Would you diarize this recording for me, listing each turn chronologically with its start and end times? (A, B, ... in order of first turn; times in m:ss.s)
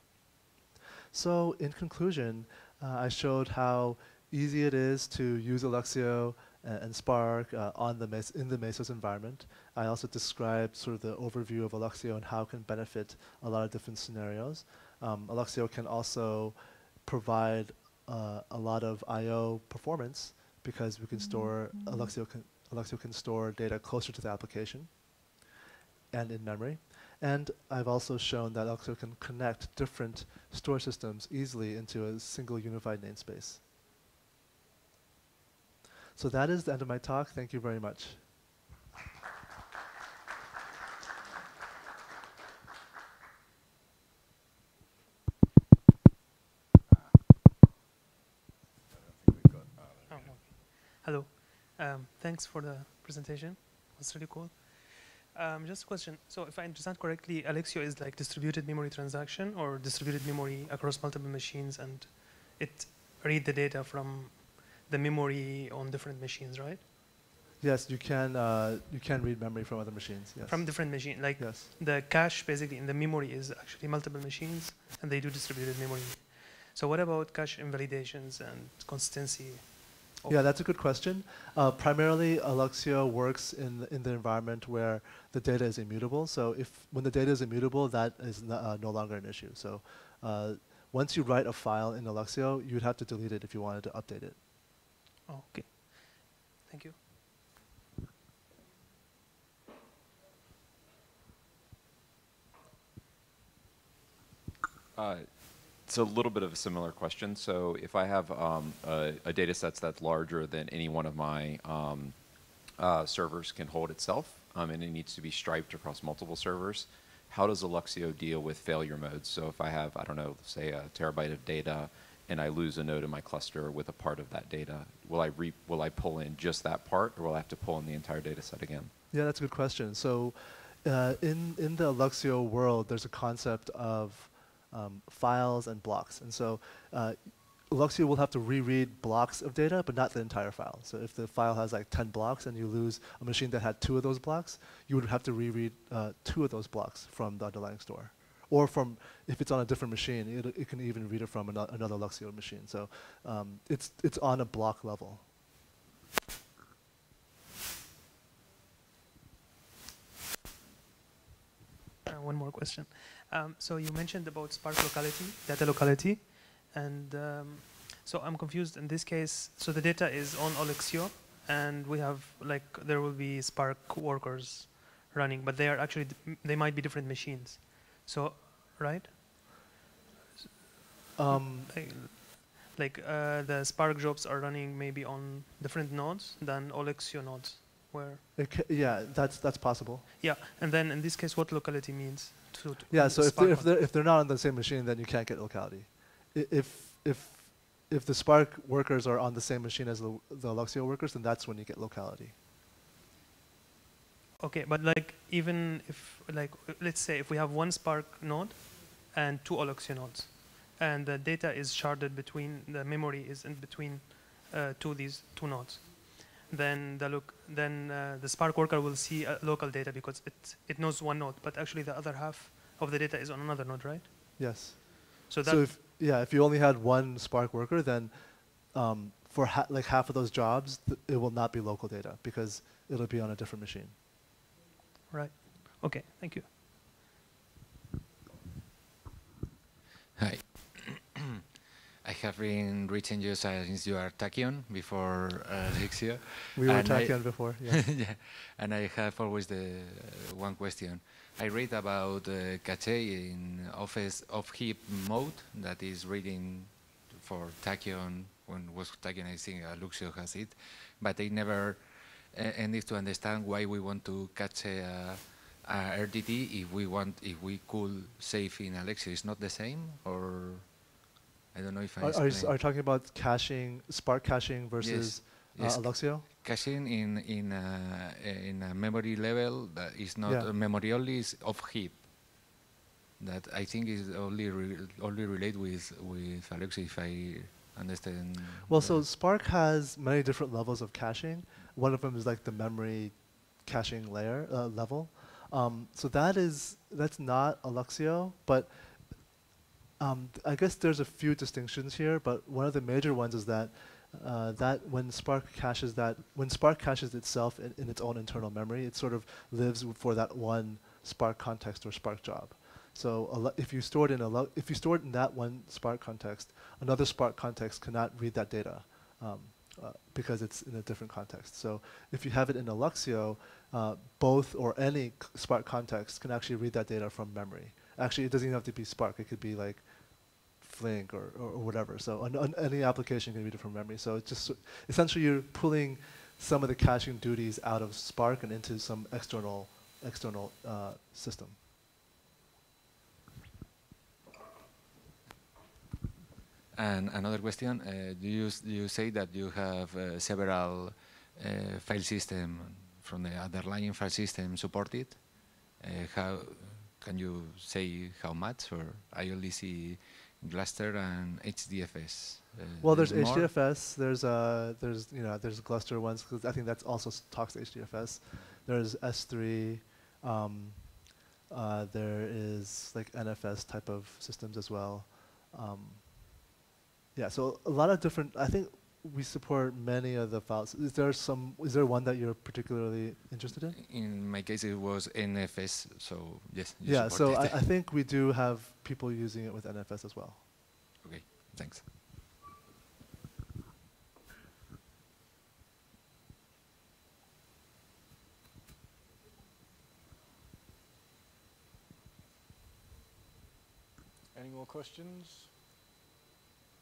0:01.1-0:25.2 A
0:26.1-0:33.6 A
0:36.2-0:38.3 A
0:48.9-0:50.4 B
0:50.1-1:06.8 C
1:07.6-1:11.7 A
1:10.5-1:20.4 C
1:20.3-1:34.4 A
1:35.3-1:37.0 C
1:45.0-2:08.9 D
2:09.1-2:35.3 A
2:42.1-2:59.6 C
3:01.2-3:01.7 A
3:01.3-3:08.2 C
3:08.4-3:10.1 A
3:10.2-3:13.8 C
3:12.9-3:22.4 A
3:24.4-3:44.6 C
3:44.4-3:54.0 A
3:45.3-3:45.7 C
3:55.1-3:56.5 C
4:00.2-4:01.1 E
4:02.0-4:32.5 E
4:06.6-4:07.8 A
4:32.0-4:36.2 A
4:34.8-4:42.0 E
4:43.2-4:49.1 E
4:48.7-4:59.2 A
5:00.0-5:41.6 A
5:46.7-6:03.5 E
6:02.8-6:16.5 A
6:17.2-6:23.8 A
6:23.7-6:27.6 E
6:26.8-6:30.4 A
6:31.0-6:31.9 E
6:44.4-6:45.5 B